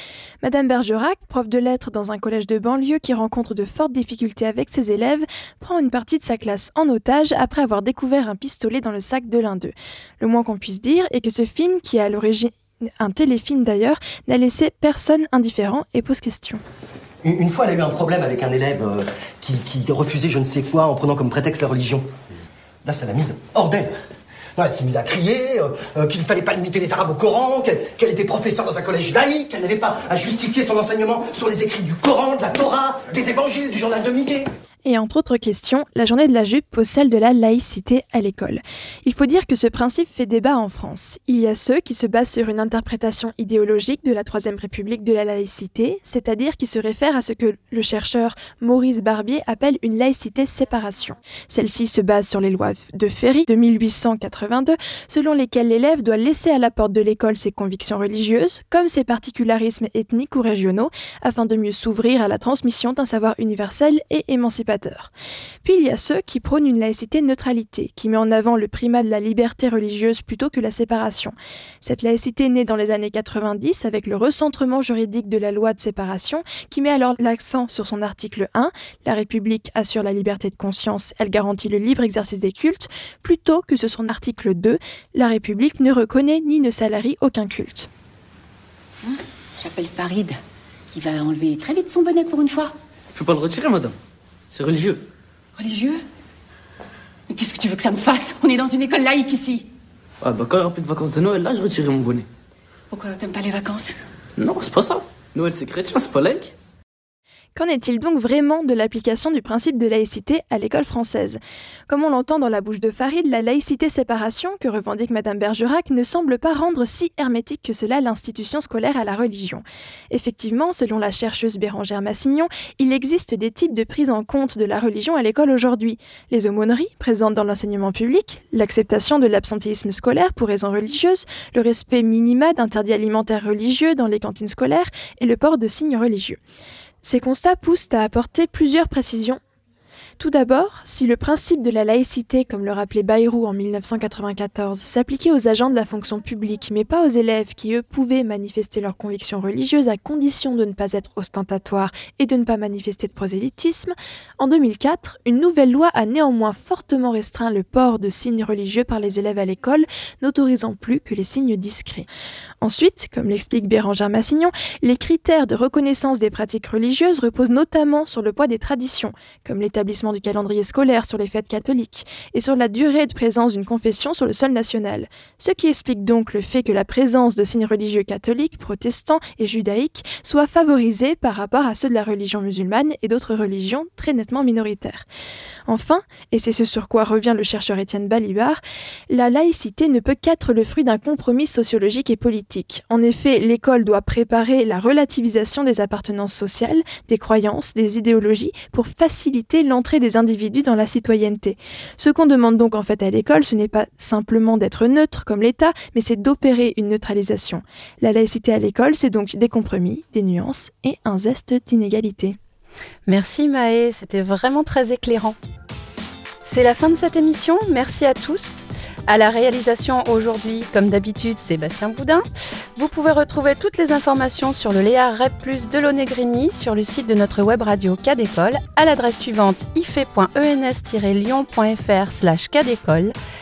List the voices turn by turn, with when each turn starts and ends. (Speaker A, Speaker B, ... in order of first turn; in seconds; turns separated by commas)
Speaker A: 0.4-16.6, Speaker B: 17.2-22.1, Speaker B: 22.8-23.9, Speaker B: 24.6-34.5, Speaker A: 34.8-65.1, Speaker A: 65.6-87.9, Speaker C: 89.0-90.4, Speaker C: 90.9-92.7, Speaker D: 93.1-94.0, Speaker D: 94.5-95.0, Speaker C: 95.5-96.0, Speaker C: 97.3-99.7, Speaker D: 100.2-102.3, Speaker C: 102.9-104.0, Speaker D: 104.4-106.5, Speaker A: 107.5-136.4, Speaker A: 137.0-139.4, Speaker A: 140.2-162.1, Speaker A: 162.6-185.1, Speaker A: 185.7-212.4, Speaker E: 213.1-215.3, Speaker E: 216.4-222.2, Speaker E: 222.8-233.1